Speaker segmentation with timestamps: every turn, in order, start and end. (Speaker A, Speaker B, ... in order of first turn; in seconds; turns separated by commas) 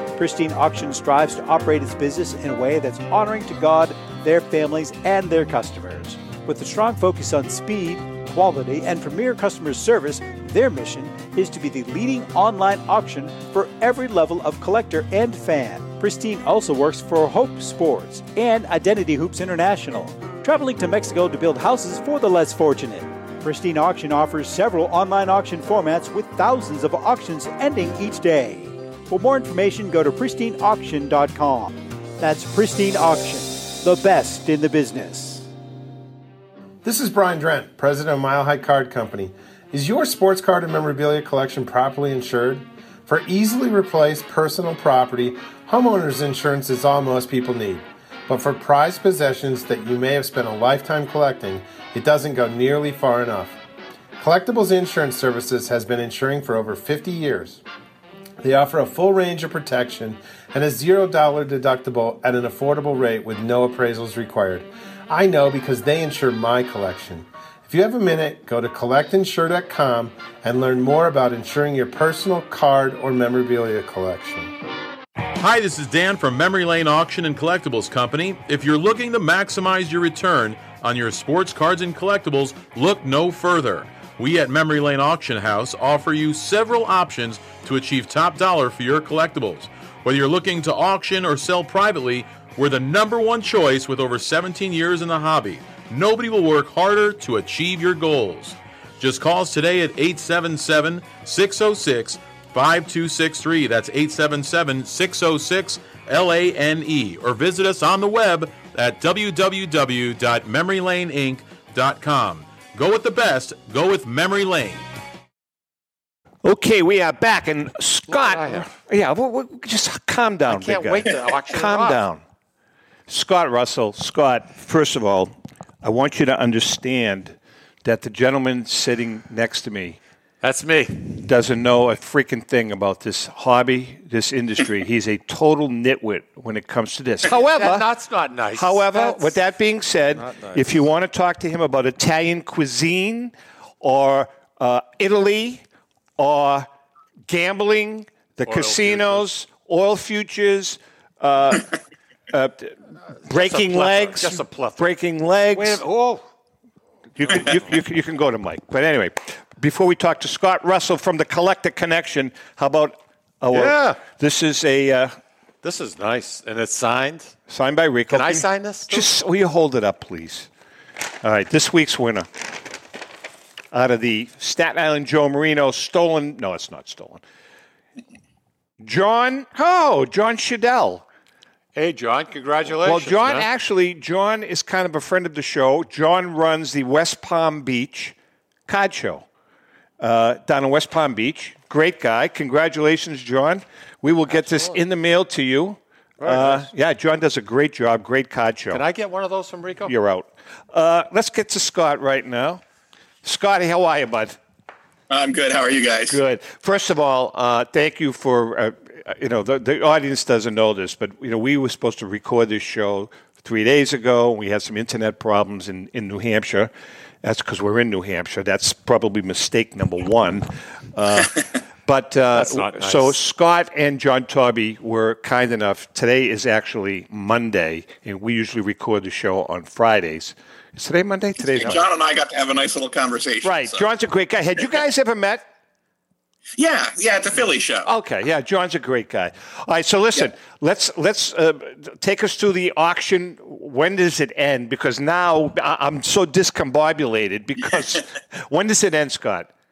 Speaker A: 0.2-35.5, Speaker B: 36.8-53.6, Speaker B: 54.2-57.6, Speaker B: 58.4-74.5, Speaker C: 75.4-114.8, Speaker D: 116.4-122.2, Speaker E: 118.1-118.7, Speaker E: 120.5-122.0, Speaker D: 123.1-130.0, Speaker E: 130.4-131.2, Speaker D: 131.2-137.9, Speaker E: 137.2-139.4, Speaker D: 138.5-145.6, Speaker E: 140.2-140.8, Speaker D: 146.2-146.7, Speaker D: 147.3-151.7, Speaker E: 148.4-149.3, Speaker D: 152.3-152.8, Speaker E: 153.2-154.9, Speaker D: 153.3-155.8, Speaker E: 155.5-156.2, Speaker D: 157.2-165.2, Speaker E: 163.5-164.0, Speaker E: 165.6-167.3, Speaker D: 167.5-170.5, Speaker E: 168.1-169.1, Speaker D: 171.2-172.5, Speaker D: 173.7-177.2, Speaker D: 178.8-181.1, Speaker E: 181.8-183.5, Speaker D: 182.8-188.2, Speaker D: 188.7-189.3, Speaker D: 190.0-198.8, Speaker E: 194.3-194.8, Speaker E: 196.2-196.7, Speaker E: 198.7-199.9, Speaker D: 199.9-202.6, Speaker D: 203.2-204.4, Speaker F: 205.1-206.2, Speaker D: 206.1-216.7, Speaker D: 217.2-231.8, Speaker E: 222.3-223.2, Speaker F: 231.5-233.8, Speaker D: 233.4-235.4, Speaker F: 236.6-237.9, Speaker D: 237.8-249.5